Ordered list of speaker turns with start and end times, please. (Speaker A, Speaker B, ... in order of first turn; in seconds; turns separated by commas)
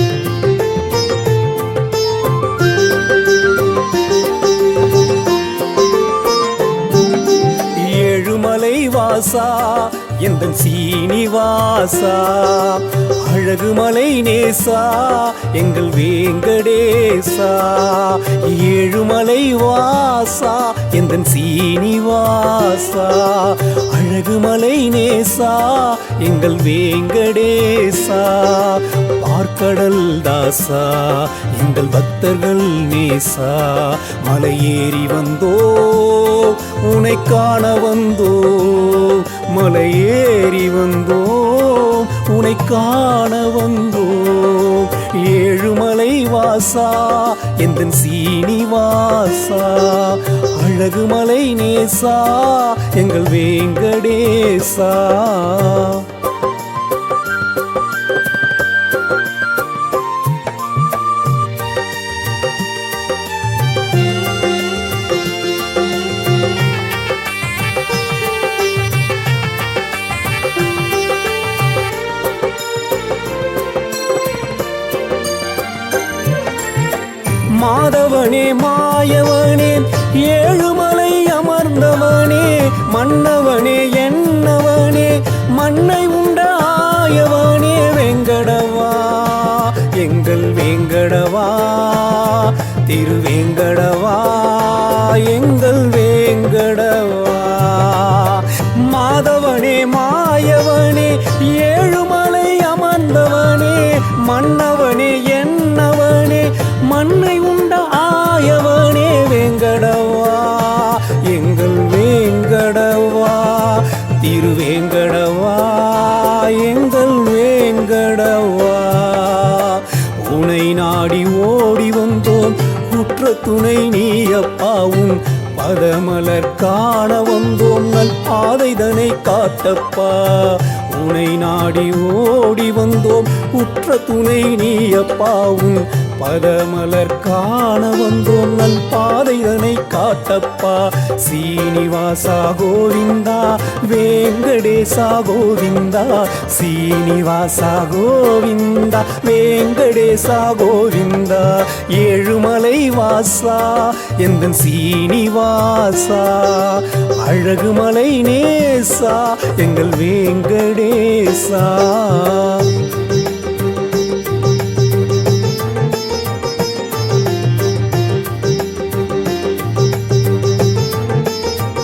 Speaker A: 7.6-56.1, Speaker A: 77.5-162.8